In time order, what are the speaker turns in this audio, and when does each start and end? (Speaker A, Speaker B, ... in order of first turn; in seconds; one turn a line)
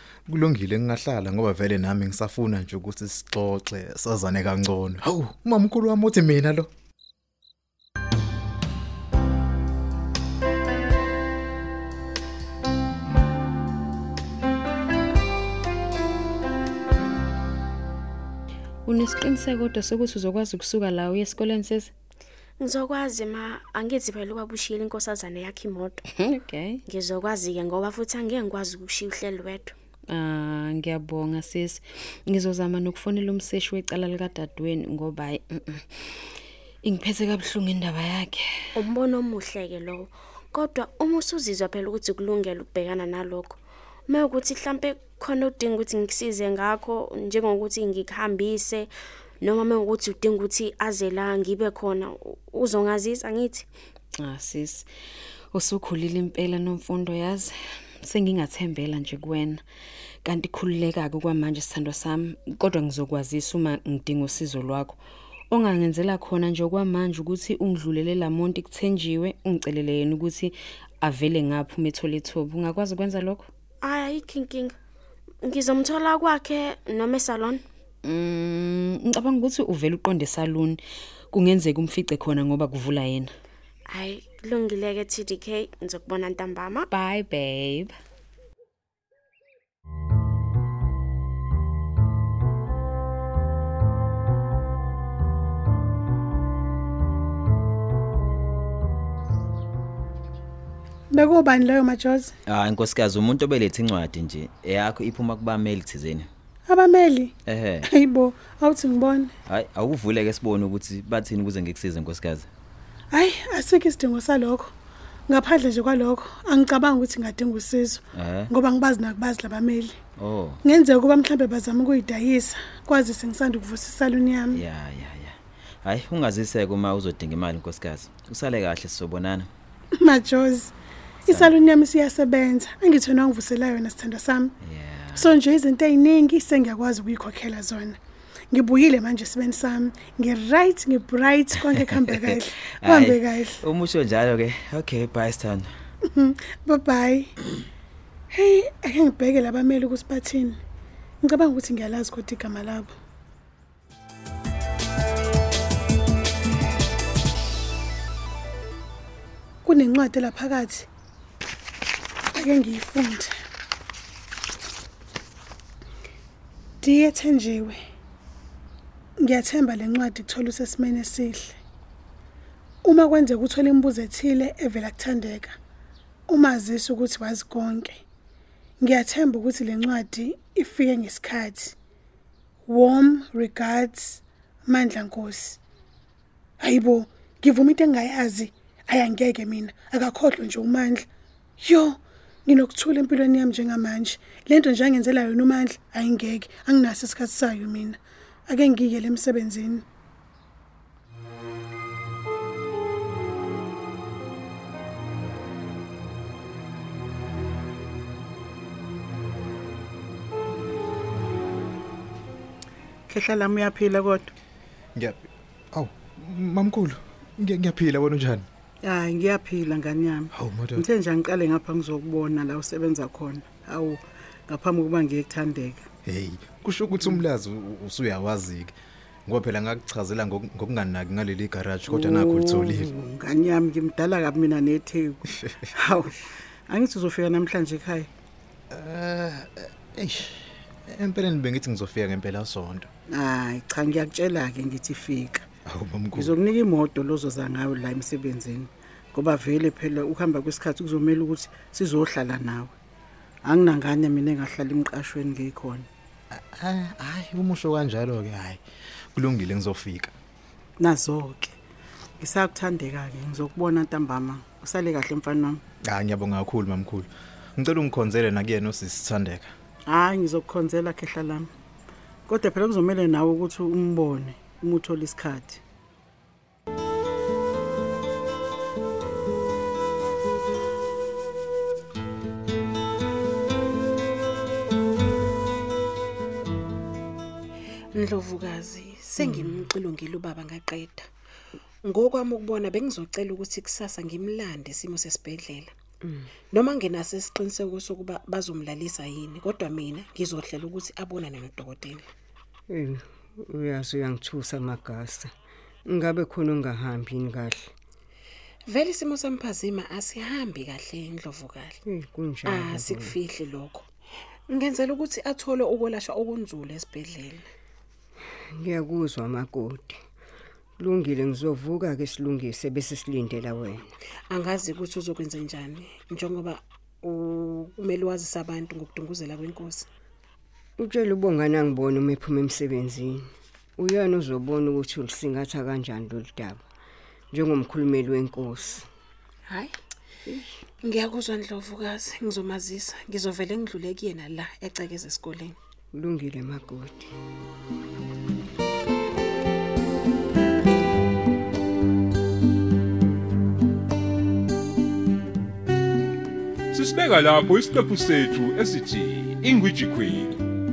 Speaker A: 0.3-6.7
Speaker B: 18.9-21.9
Speaker C: 22.6-26.0
Speaker B: 26.2-26.8
Speaker C: 26.9-29.7
Speaker B: 30.1-35.8
Speaker B: 36.8-38.7
Speaker C: 38.7-48.9
Speaker C: 49.4-53.6
Speaker B: 54.2-54.9
Speaker B: 55.5-59.6
Speaker B: 60.2-65.0
Speaker B: 65.5-73.5
Speaker C: 73.8-74.8
Speaker C: 75.4-77.6
Speaker B: 78.0-80.8
Speaker B: 81.3-83.3
Speaker C: 83.9-86.9
Speaker B: 86.9-87.9
Speaker D: 101.1-102.3
Speaker E: 102.5-106.3
Speaker D: 106.7-107.3
Speaker E: 107.5-107.9
Speaker D: 107.8-109.3
Speaker E: 109.5-112.5
Speaker D: 113.1-114.7
Speaker D: 115.3-120.0
Speaker E: 118.2-118.5
Speaker E: 120.2-120.6
Speaker D: 120.6-124.6
Speaker E: 124.5-129.5
Speaker D: 130.0-130.7
Speaker D: 131.3-134.5
Speaker E: 134.6-135.3
Speaker D: 135.1-138.0
Speaker D: 138.5-143.6
Speaker E: 141.6-145.7
Speaker D: 146.1-147.3
Speaker D: 148.3-150.6
Speaker D: 151.2-152.9
Speaker D: 159.6-160.9
Speaker D: 162.3-163.3
Speaker D: 166.8-167.8
Speaker D: 169.2-171.6
Speaker D: 172.8-175.5
Speaker D: 176.3-178.0
Speaker D: 178.8-181.7
Speaker D: 182.7-185.6
Speaker D: 186.6-191.1
Speaker D: 191.6-199.8
Speaker F: 213.1-214.3
Speaker A: 214.9-218.4
Speaker F: 218.8-225.8
Speaker A: 220.3-220.8
Speaker A: 226.0-228.7
Speaker A: 229.3-232.9
Speaker F: 231.9-238.1
Speaker A: 238.7-242.9
Speaker F: 243.1-245.4
Speaker A: 245.7-246.3
Speaker F: 246.1-252.7
Speaker F: 253.4-255.9
Speaker A: 256.3-258.6
Speaker A: 259.1-260.1
Speaker F: 260.8-261.5
Speaker F: 262.2-265.6
Speaker A: 265.8-269.5
Speaker F: 269.9-271.5
Speaker F: 272.3-275.6
Speaker G: 287.9-291.1
Speaker H: 289.2-289.5
Speaker G: 291.8-295.7
Speaker G: 296.5-302.0
Speaker H: 302.7-305.3
Speaker H: 305.9-307.7
Speaker G: 308.7-311.8
Speaker H: 311.9-313.2
Speaker G: 312.5-313.8
Speaker G: 314.5-317.4
Speaker H: 318.6-320.0
Speaker H: 320.8-323.9
Speaker G: 324.3-329.9
Speaker H: 330.8-333.2
Speaker H: 333.8-336.6
Speaker H: 337.3-338.9
Speaker G: 340.9-345.5
Speaker H: 345.9-347.1
Speaker I: 356.7-360.4